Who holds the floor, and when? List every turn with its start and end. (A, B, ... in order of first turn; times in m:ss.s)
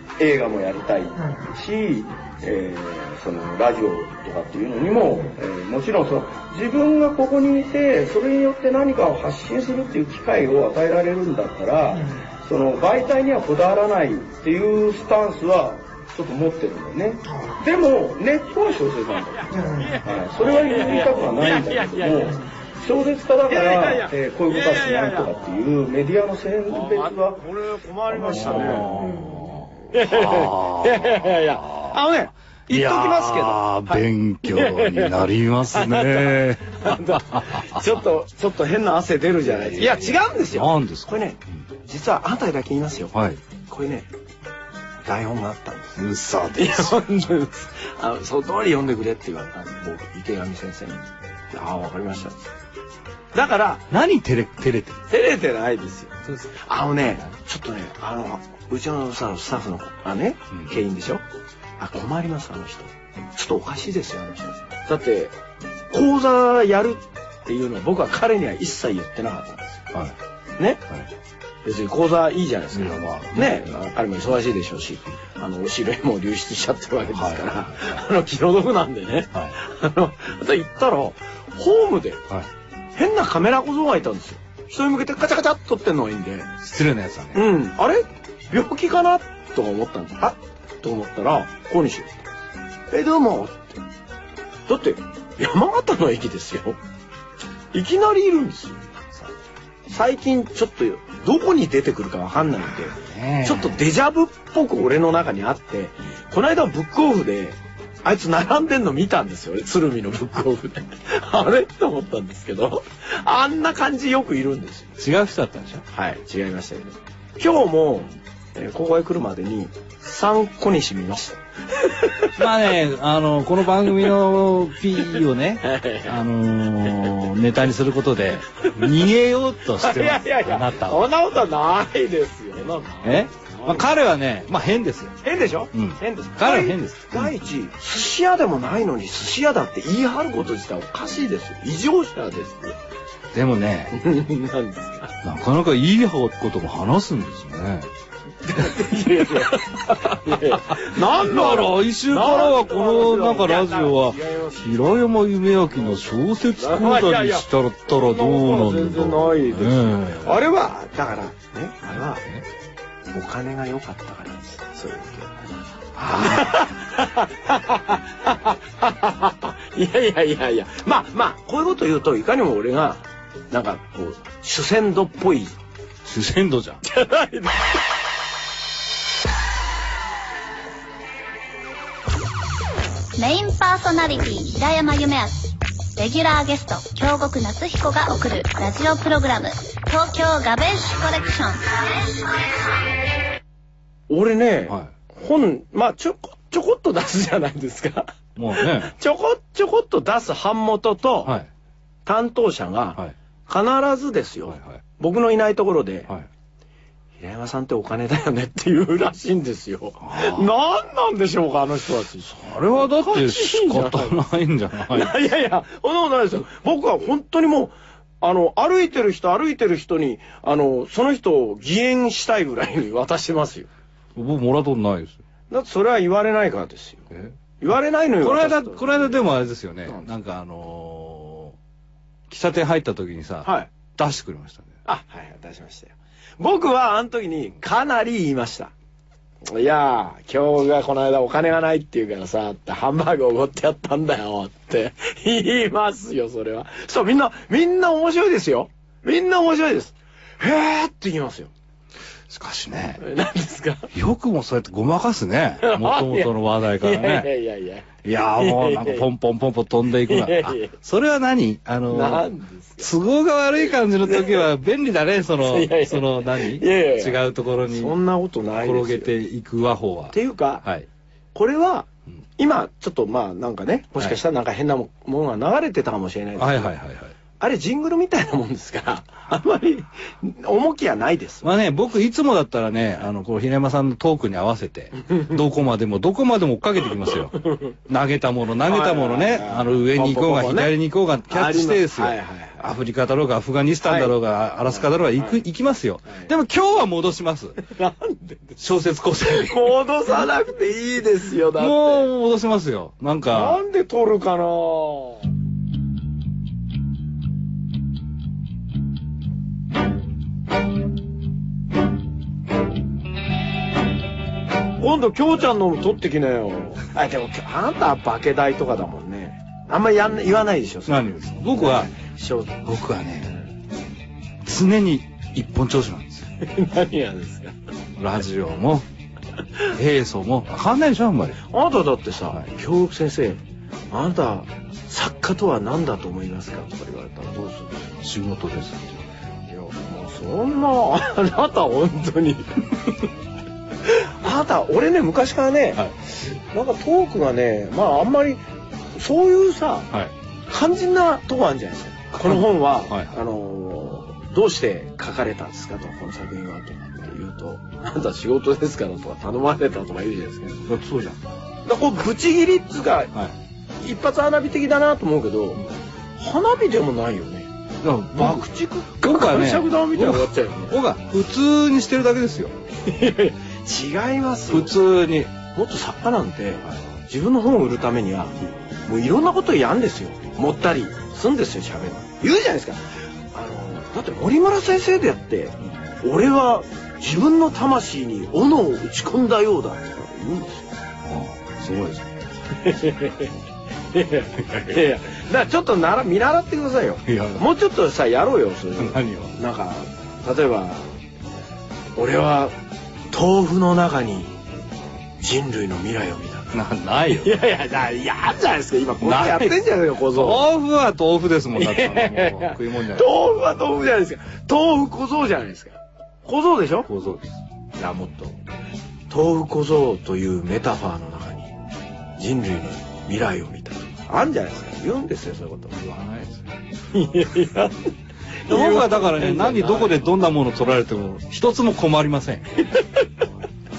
0:00.2-0:27.4 A
0:19.6-0:22.4 B
0:23.5-0:25.4 B
0:26.7-0:44.1 B
0:28.1-0:29.0 A
0:28.3-0:32.0 C
0:32.7-0:38.0 C
0:39.4-0:41.4 C
0:43.1-0:43.4 C
0:45.0-0:46.0 B
0:46.0-0:47.0 C
0:46.5-0:52.5 B
0:53.3-0:53.9 B
0:53.9-0:55.0 C
0:55.1-1:01.2 B
1:01.8-1:05.3 B
1:05.9-1:09.8 B
1:11.6-1:22.2 B
1:12.7-1:13.7 C
1:17.1-1:18.0 C
1:22.9-1:26.5 B
1:26.6-1:27.5 C
1:27.3-1:32.2 B
1:32.9-1:33.8 B
1:34.7-1:36.8 B
1:37.7-1:39.3 B
1:39.9-1:55.0 B
1:42.9-1:43.8 C
1:55.0-1:55.8 C
1:55.9-2:02.4 B
2:02.4-2:11.1 C
2:05.1-2:06.2 B
2:08.6-2:09.1 B
2:09.8-2:13.9 B
2:13.0-2:15.2 C
2:15.2-2:22.8 B
2:15.7-2:17.3 C
2:23.3-2:24.0 C
2:23.9-2:25.1 B
2:25.2-2:27.9 C
2:28.4-2:34.6 B
2:30.3-2:40.4 C
2:36.6-2:42.2 B
2:43.1-2:45.5 B
2:46.0-2:46.6 C
2:46.1-2:55.6 B
2:56.0-2:56.8 C
2:56.8-2:57.8 B
3:03.2-3:12.6 D
3:14.1-3:21.3 B
3:18.4-3:18.9 C
3:22.0-3:26.1 B
3:24.5-3:24.8 C
3:27.2-3:34.2 B
3:30.0-3:30.5 C
3:32.2-3:35.1 C
3:34.9-3:43.7 B
3:44.2-3:45.2 C
3:45.5-3:47.1 B
3:47.6-3:49.2 B
3:48.2-3:51.6 C
3:52.3-3:54.7 C
3:53.4-3:53.7 B
3:54.8-3:58.7 B
3:59.5-4:11.5 B
4:12.3-4:13.0 C
4:13.0-4:13.9 B
4:13.9-4:17.3 C
4:15.6-4:19.0 B
4:18.0-4:28.0 C
4:20.0-4:20.8 B
4:21.9-4:23.0 B
4:24.1-4:24.4 B
4:25.4-4:29.1 B
4:28.6-4:30.9 C
4:30.1-4:30.6 B
4:31.3-4:36.7 B
4:36.4-4:37.1 C
4:37.4-4:41.5 B
4:41.4-4:57.6 C
4:45.1-4:45.3 B
4:47.4-4:47.7 B
4:48.6-4:50.7 B
4:51.3-4:52.7 B
4:53.8-4:54.1 B
4:54.7-4:55.4 B
4:57.6-4:58.6 B
4:58.6-4:59.8 C
4:59.3-5:02.1 B
5:01.6-5:03.6 C
5:03.3-5:05.2 B
5:14.8-5:22.6 B
5:20.8-5:21.9 C
5:22.6-5:23.3 C
5:24.4-5:26.3 C
5:26.4-5:27.5 B
5:28.0-5:28.8 C
5:29.7-5:31.4 C
5:31.5-5:37.9 B
5:38.0-5:39.0 C
5:39.5-5:42.6 B
5:43.8-5:48.4 B
5:49.0-5:49.9 B
5:50.5-6:00.7 B
5:52.2-5:53.1 C
6:00.7-6:01.2 C
6:01.6-6:03.1 B
6:03.8-6:05.6 B
6:06.2-6:07.5 B
6:07.8-6:12.5 C
6:08.1-6:10.7 B
6:12.8-6:14.7 B
6:14.5-6:15.3 C
6:15.5-6:22.8 B
6:23.3-6:30.7 B
6:31.0-6:32.1 C
6:32.5-6:33.3 B
6:33.9-6:40.9 B
6:37.0-6:37.4 C
6:38.8-6:39.3 C
6:42.0-6:42.5 B
6:43.1-6:44.3 B
6:45.2-6:46.5 B
6:46.5-6:47.4 C
6:47.1-6:50.5 B
6:49.0-6:49.6 C
6:50.1-6:53.1 C
6:51.6-6:56.9 B
6:56.9-6:57.4 C
6:57.8-6:58.4 B
6:59.1-7:01.5 B
7:02.2-7:05.8 B
7:05.7-7:06.4 C
7:06.9-7:07.9 B
7:08.4-7:10.0 B
7:08.5-7:12.7 C
7:12.6-7:13.1 B